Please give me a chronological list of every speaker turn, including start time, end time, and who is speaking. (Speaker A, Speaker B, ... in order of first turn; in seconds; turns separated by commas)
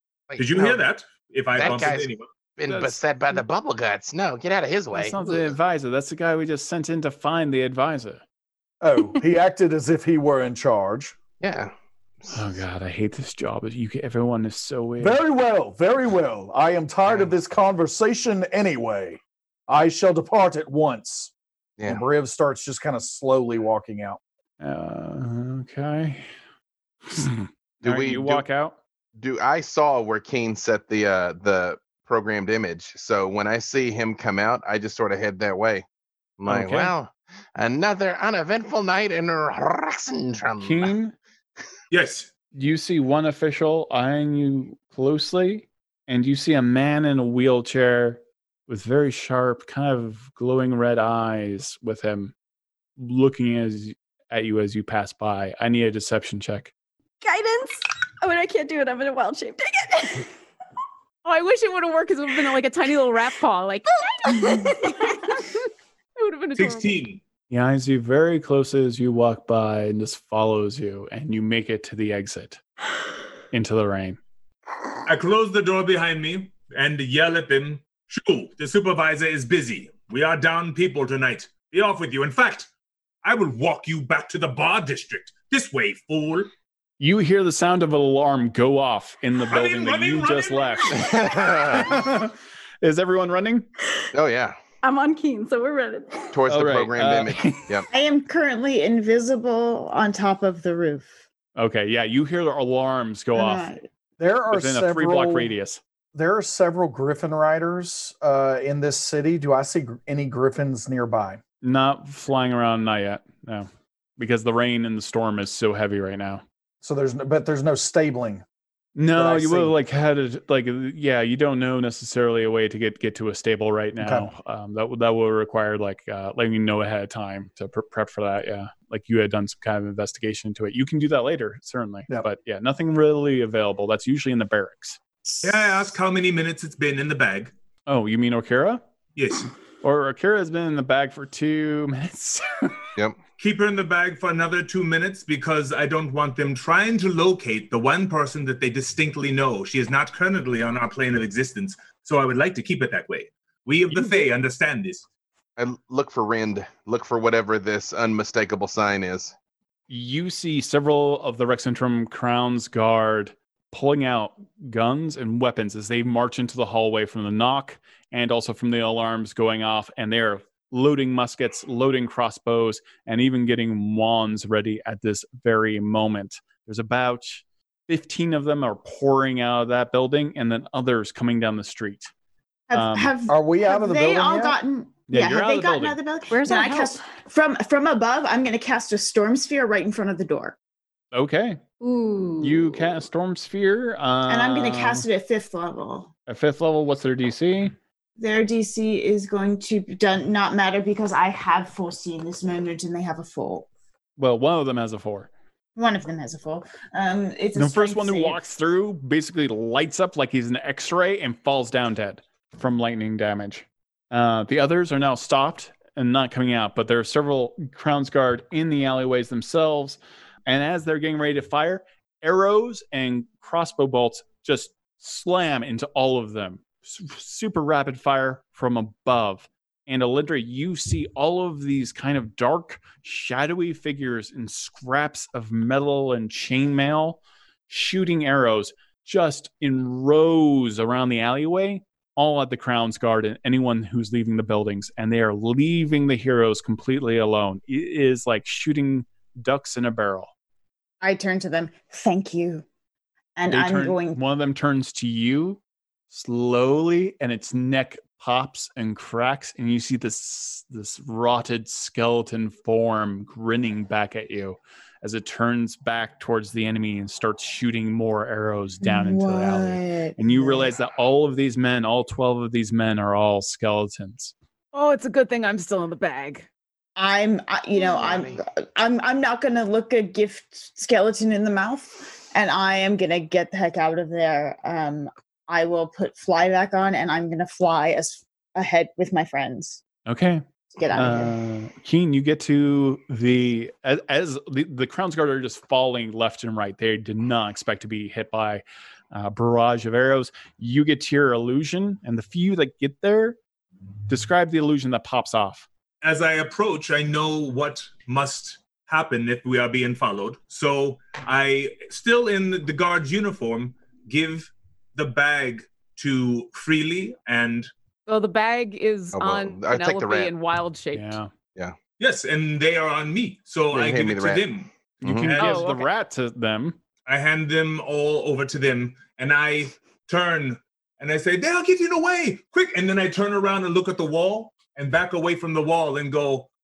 Speaker A: 0.3-0.8, Speaker B: 0.4-2.3, Speaker A: 1.6-5.5, Speaker C: 2.7-3.0, Speaker C: 4.9-8.2, Speaker D: 8.8-11.2, Speaker A: 11.4-12.6, Speaker C: 12.3-15.2, Speaker D: 15.0-21.3, Speaker D: 21.9-24.2, Speaker C: 24.6-26.3, Speaker C: 27.1-28.8, Speaker A: 27.8-28.5, Speaker A: 29.2-35.9, Speaker A: 36.4-40.9, Speaker C: 36.5-36.9, Speaker C: 40.6-41.1, Speaker B: 41.9-42.3, Speaker C: 42.5-52.3, Speaker C: 53.0-56.7, Speaker E: 57.2-60.3, Speaker F: 61.2-65.6, Speaker E: 63.9-65.4, Speaker F: 66.2-66.9, Speaker B: 66.6-67.2, Speaker C: 67.5-72.6, Speaker C: 73.5-74.2, Speaker B: 75.0-82.7, Speaker B: 83.2-86.5, Speaker C: 87.0-91.1, Speaker B: 89.5-91.1, Speaker A: 90.9-91.9, Speaker C: 91.6-93.7, Speaker A: 94.1-94.6, Speaker E: 94.8-96.4, Speaker A: 96.3-97.9, Speaker C: 96.5-97.7, Speaker G: 97.9-101.1, Speaker C: 101.6-103.7, Speaker G: 103.3-103.8, Speaker D: 104.2-105.5, Speaker C: 104.5-105.8, Speaker D: 106.1-111.4, Speaker C: 111.6-116.4, Speaker D: 116.8-118.4, Speaker C: 119.0-135.0, Speaker D: 119.2-119.8, Speaker D: 124.0-124.3, Speaker B: 135.4-137.5, Speaker C: 137.9-138.8, Speaker B: 139.2-139.5, Speaker C: 139.8-142.9, Speaker B: 143.4-155.1, Speaker A: 155.6-159.3, Speaker C: 159.9-182.1, Speaker G: 182.7-190.6, Speaker C: 182.7-183.2, Speaker D: 183.3-184.6, Speaker C: 185.1-186.0, Speaker E: 186.3-187.0, Speaker C: 191.1-191.6, Speaker E: 191.8-193.1, Speaker C: 192.4-195.1, Speaker G: 194.3-196.1, Speaker C: 196.3-197.7, Speaker G: 198.2-203.7, Speaker C: 204.2-205.3, Speaker G: 205.8-208.4, Speaker C: 207.6-250.3, Speaker G: 251.0-252.7, Speaker G: 253.4-254.2, Speaker C: 253.5-274.3, Speaker G: 268.8-270.8, Speaker F: 274.7-276.5, Speaker G: 277.0-289.8, Speaker A: 277.8-278.4, Speaker C: 290.1-303.4, Speaker G: 290.7-291.4, Speaker C: 304.1-305.7, Speaker B: 306.0-317.7, Speaker F: 318.1-321.2, Speaker A: 319.1-320.3, Speaker C: 320.9-321.3, Speaker B: 322.0-325.7, Speaker A: 323.7-324.5, Speaker C: 325.0-326.8, Speaker A: 325.0-325.4, Speaker F: 325.4-325.9, Speaker B: 327.1-336.5